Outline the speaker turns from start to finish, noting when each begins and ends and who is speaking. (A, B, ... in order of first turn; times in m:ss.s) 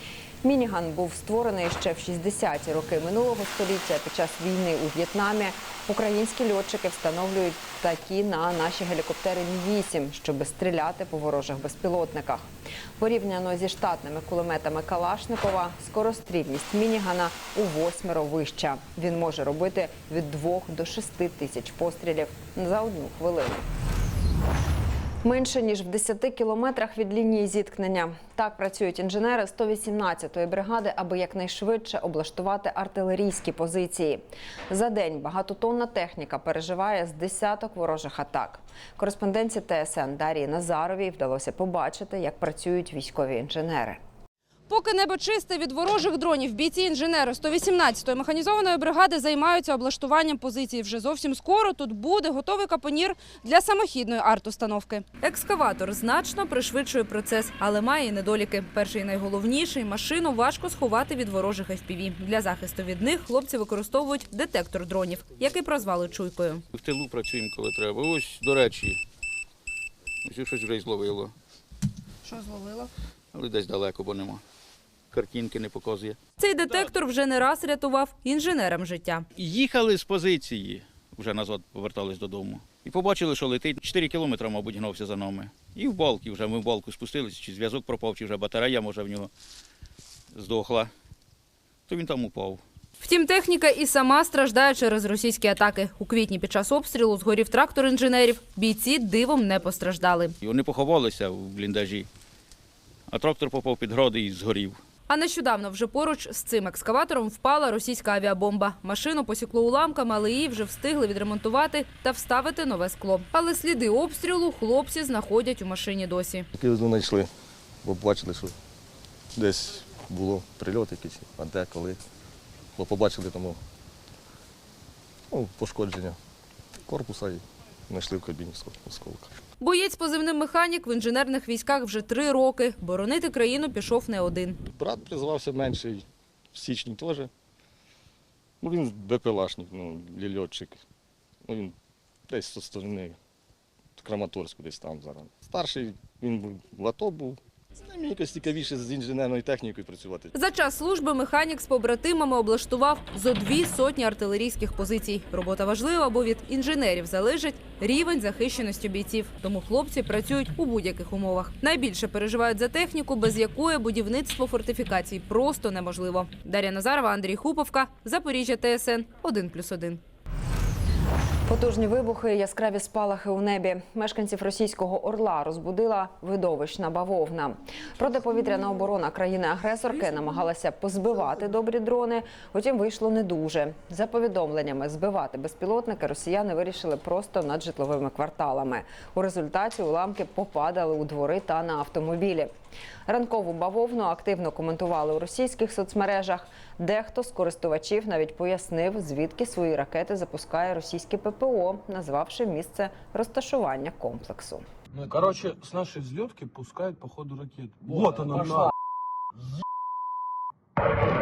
0:00.4-0:23.7 A
0:25.2-0:44.0 A
0:44.7-1:06.6 B
1:06.7-1:09.0 C
1:10.2-1:11.3 C
1:12.2-1:12.9 B
1:13.3-1:14.4 C
1:15.1-1:16.2 C
1:16.4-1:19.2 B
1:19.4-1:29.3 C
1:30.3-1:30.9 C
1:31.9-1:32.6 C
1:33.0-1:40.3 B
1:40.4-1:42.1 C
1:43.1-1:44.8 C
1:45.1-1:56.4 B
1:56.6-1:57.3 D
1:57.8-1:58.6 D
1:59.3-2:02.0 D
2:02.7-2:03.6 D
2:05.3-2:06.2 D
2:06.8-2:09.3 D
2:09.6-2:14.6 B
2:14.7-2:17.3 D
2:18.6-2:20.8 D
2:21.4-2:21.7 D
2:22.3-2:23.2 D
2:24.0-2:30.3 D
2:30.4-2:50.0 B
2:51.5-3:12.5 A
3:13.1-3:24.6 A
3:24.9-3:28.7 E